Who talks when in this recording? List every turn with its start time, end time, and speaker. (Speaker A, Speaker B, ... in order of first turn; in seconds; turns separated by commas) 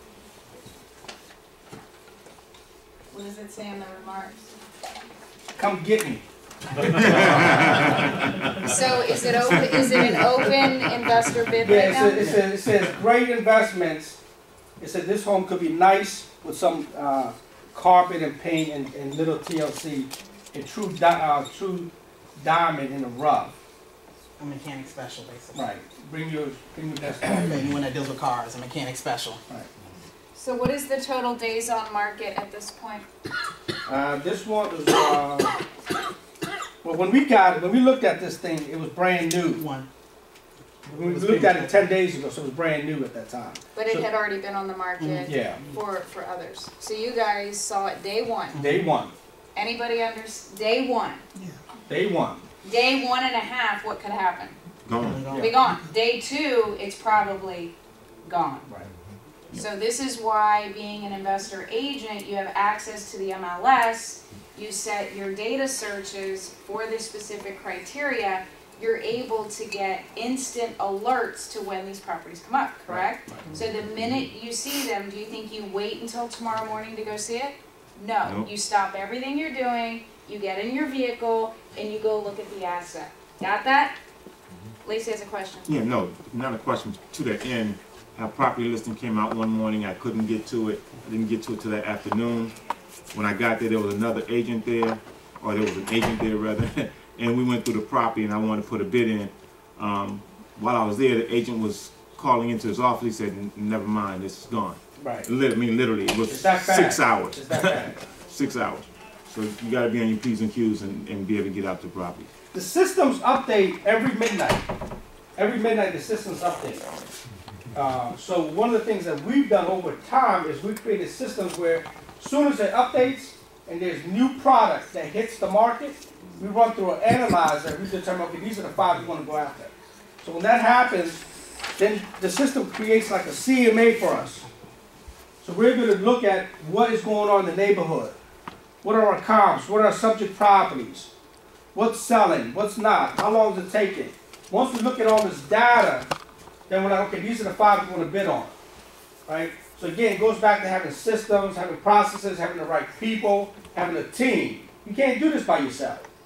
Speaker A: 3.1-4.5, Speaker B: 5.5-6.2, Speaker C: 6.9-7.7, Speaker A: 6.9-7.8, Speaker B: 6.9-7.7, Speaker A: 8.6-12.4, Speaker B: 11.6-14.2, Speaker B: 14.8-23.6, Speaker D: 24.4-25.6, Speaker B: 25.5-27.6, Speaker D: 27.2-29.4, Speaker A: 30.3-33.0, Speaker B: 33.9-35.5, Speaker B: 36.8-39.6, Speaker D: 39.4-39.9, Speaker B: 40.9-44.1, Speaker D: 41.0-41.8, Speaker A: 43.7-48.6, Speaker D: 45.0-45.8, Speaker B: 45.2-45.6, Speaker D: 48.5-48.9, Speaker B: 48.5-49.1, Speaker A: 49.5-51.2, Speaker B: 51.9-52.4, Speaker A: 52.6-54.6, Speaker C: 54.9-55.3, Speaker D: 55.0-55.7, Speaker A: 55.2-57.7, Speaker A: 58.2-58.7, Speaker A: 59.5-84.0, Speaker B: 72.9-73.6, Speaker C: 78.2-78.5, Speaker A: 84.8-85.7, Speaker C: 85.7-112.3, Speaker B: 105.0-105.3, Speaker B: 106.2-108.0, Speaker B: 112.5-114.7, Speaker B: 115.3-116.8, Speaker B: 117.7-131.2, Speaker B: 131.8-134.4, Speaker B: 135.4-138.2, Speaker B: 138.8-141.1, Speaker B: 141.7-146.1, Speaker B: 146.7-148.5, Speaker B: 149.3-156.1